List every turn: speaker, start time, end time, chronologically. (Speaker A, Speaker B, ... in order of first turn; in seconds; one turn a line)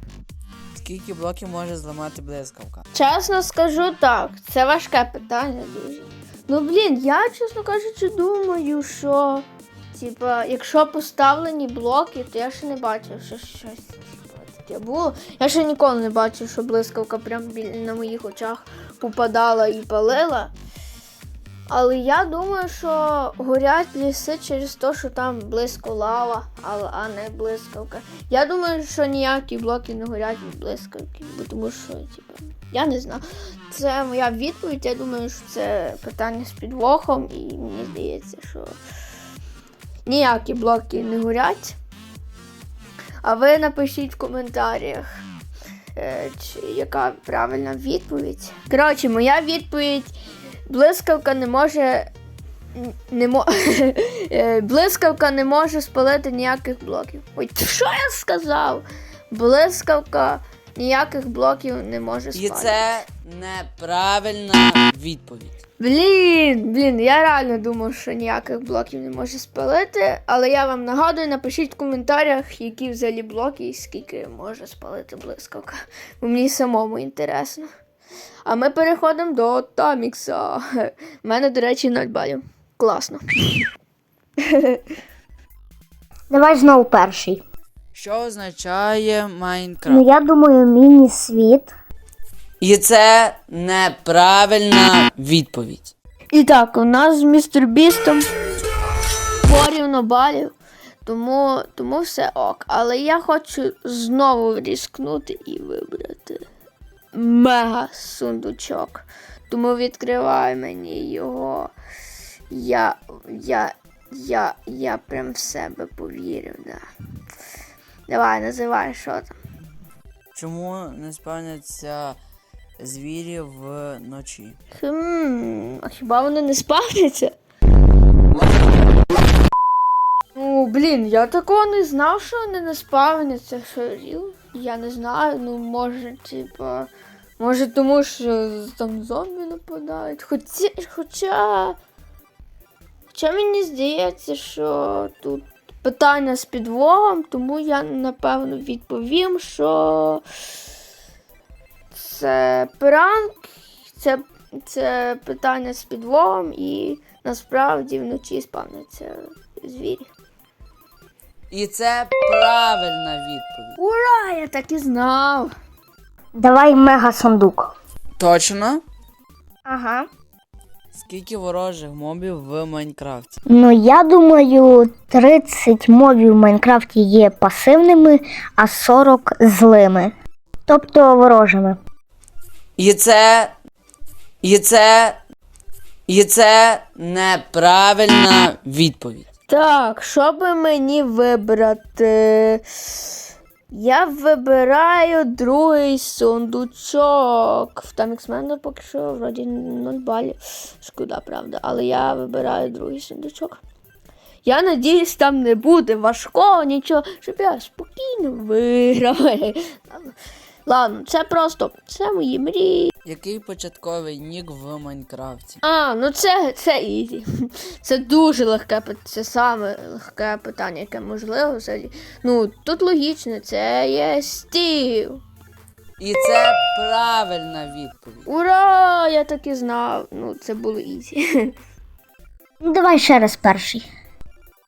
Speaker A: 0.7-2.8
Speaker B: 2.9-20.5
Speaker B: 21.7-38.7
Speaker B: 40.0-41.8
Speaker B: 43.2-45.1
Speaker B: 46.0-50.1
Speaker B: 50.7-52.1
Speaker B: 52.7-62.8
Speaker A: 62.3-65.5
Speaker B: 65.8-77.7
Speaker B: 78.4-83.7
Speaker B: 84.5-84.8
Speaker C: 86.3-87.4
Speaker A: 87.9-90.0
Speaker C: 89.8-91.7
Speaker A: 92.6-95.9
Speaker B: 96.3-98.3
Speaker B: 99.4-100.5
Speaker B: 101.0-106.4
Speaker B: 107.1-111.7
Speaker B: 112.5-116.8
Speaker B: 118.1-119.3
Speaker A: 120.3-122.2
Speaker A: 122.8-124.6
Speaker B: 124.7-127.3
Speaker B: 130.3-141.8
Speaker B: 143.1-150.2
Speaker B: 151.9-160.1
Speaker A: 161.5-163.8
Speaker B: 163.8-165.5
Speaker C: 166.3-167.7
Speaker A: 168.2-168.8
Speaker C: 169.7-170.1
Speaker A: 170.9-173.3
Speaker C: 173.4-180.1
Speaker C: 180.7-181.8
Speaker A: 182.8-183.5
Speaker A: 184.4-185.2
Speaker A: 186.1-189.2
Speaker B: 189.5-203.6
Speaker B: 204.4-210.1
Speaker B: 210.7-212.9
Speaker A: 213.0-215.6
Speaker B: 215.6-225.2
Speaker A: 226.0-228.3
Speaker B: 228.2-231.5
Speaker C: 232.6-233.8